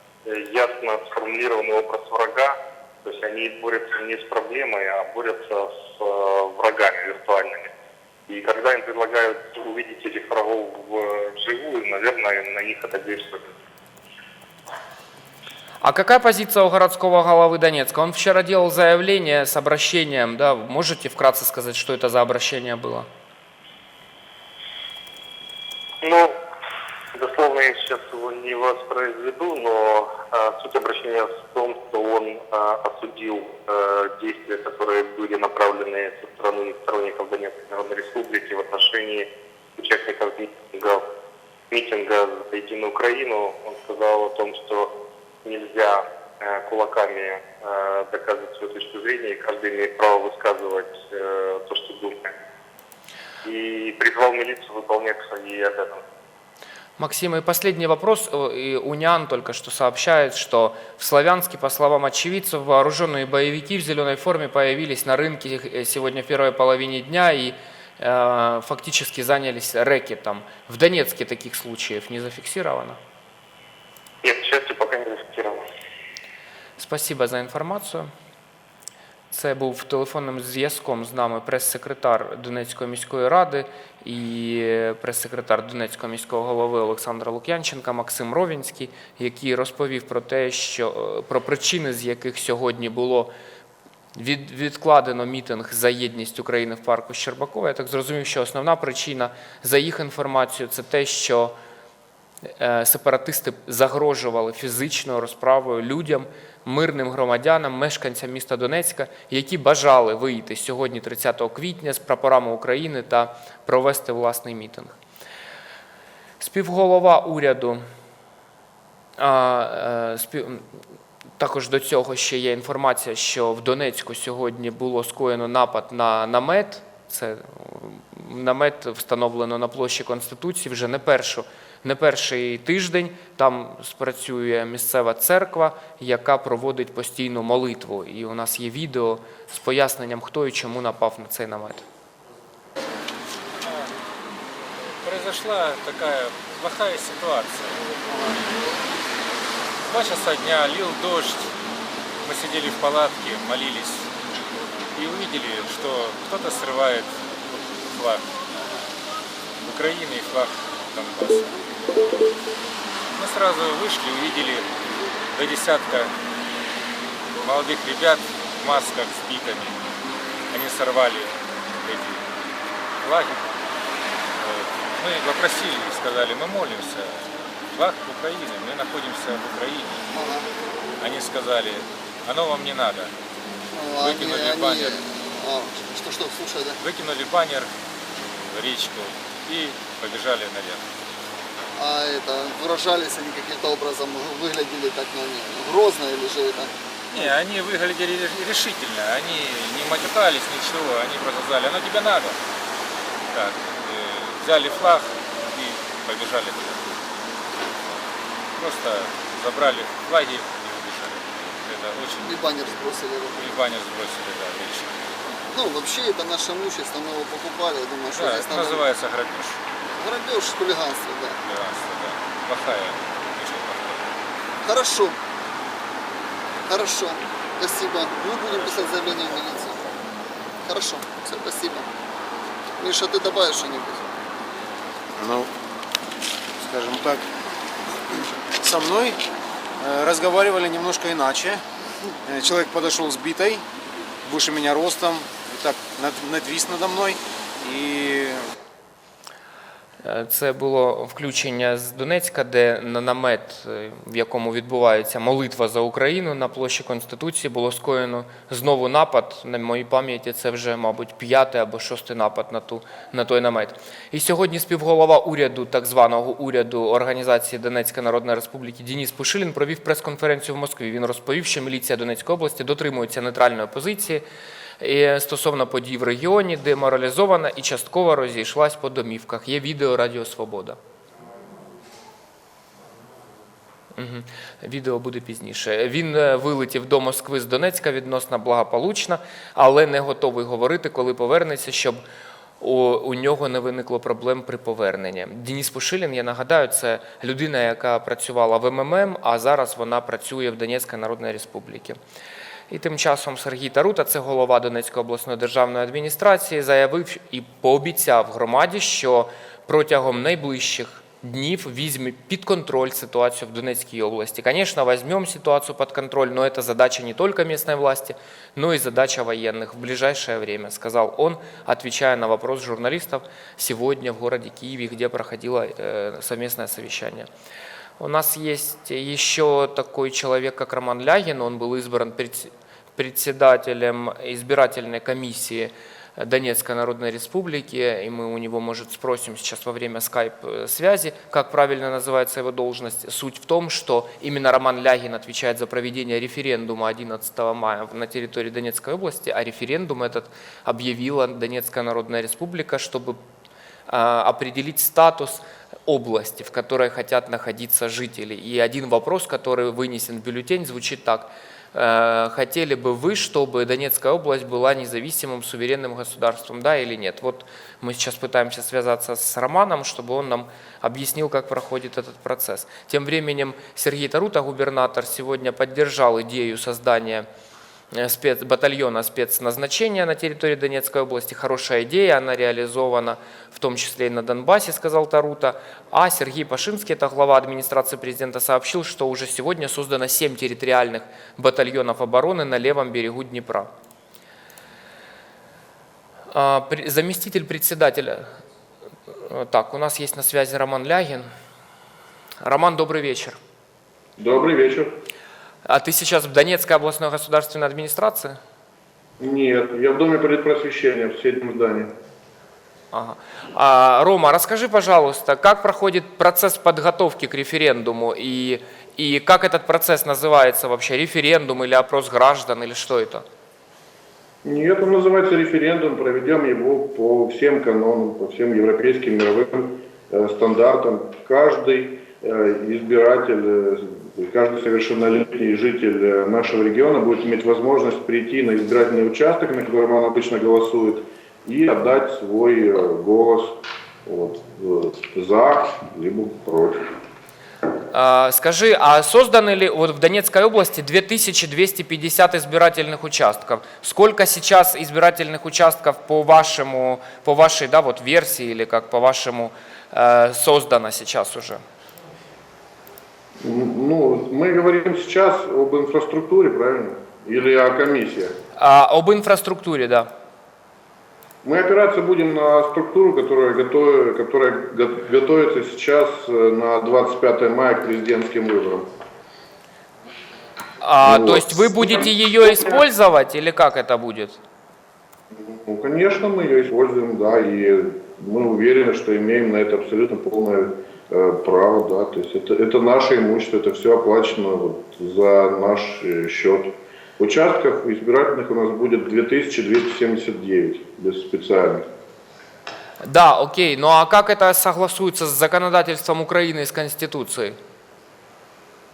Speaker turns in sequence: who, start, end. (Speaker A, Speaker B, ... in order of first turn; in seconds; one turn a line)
Speaker A: 0.2-7.7
Speaker A: 8.3-13.5
Speaker B: 15.8-23.1
Speaker A: 26.0-26.3
Speaker A: 27.1-41.0
Speaker A: 41.7-44.9
Speaker A: 45.4-52.3
Speaker A: 53.4-56.0
Speaker B: 57.0-73.0
Speaker A: 74.2-75.6
Speaker B: 76.8-78.1
Speaker B: 79.3-93.3
Speaker B: 94.1-101.5
Speaker B: 102.6-115.0
Speaker B: 116.4-117.8
Speaker B: 119.2-120.6
Speaker B: 121.4-141.8
Speaker C: 145.0-148.4
Speaker C: 149.9-151.5
Speaker C: 152.2-154.1
Speaker C: 154.9-158.2
Speaker C: 159.6-161.6
Speaker C: 163.2-164.7
Speaker C: 165.3-166.1
Speaker C: 167.4-169.8
Speaker C: 170.5-172.2
Speaker C: 173.0-173.6
Speaker C: 174.4-180.0
Speaker D: 180.1-180.5
Speaker C: 181.0-183.1
Speaker D: 183.7-186.8
Speaker C: 183.9-185.0
Speaker C: 186.8-190.8
Speaker D: 191.7-197.3
Speaker C: 197.1-202.4
Speaker C: 203.3-207.0
Speaker C: 208.6-212.6
Speaker D: 212.2-213.5
Speaker C: 213.3-215.0
Speaker D: 215.5-218.8
Speaker C: 218.1-219.6
Speaker D: 220.0-221.4
Speaker C: 221.4-224.1
Speaker D: 224.6-225.2
Speaker D: 226.7-229.8
Speaker D: 230.6-231.9
Speaker D: 232.8-234.1
Speaker E: 235.2-235.5
Speaker E: 236.6-237.2
Speaker E: 238.6-239.2
Speaker E: 239.8-241.6
Speaker E: 242.3-243.6
Speaker E: 244.2-248.4
Speaker B: 250.0-274.2
Speaker B: 274.8-280.8
Speaker B: 283.9-292.0
Speaker B: 292.6-302.0
Speaker B: 302.7-327.3
Speaker B: 328.0-353.2
Speaker B: 353.9-377.2
Speaker B: 377.9-393.7
Speaker B: 396.3-398.3
Speaker B: 399.1-401.2
Speaker B: 402.4-403.4
Speaker F: 404.2-404.9
Speaker B: 405.6-408.4
Speaker F: 409.2-411.9
Speaker B: 412.9-423.2
Speaker F: 424.4-446.8
Speaker B: 447.9-461.6
Speaker F: 463.4-468.3
Speaker B: 468.6-470.1
Speaker F: 471.4-478.9
Speaker B: 480.8-484.4
Speaker F: 481.0-482.7
Speaker F: 485.3-501.9
Speaker B: 503.0-507.6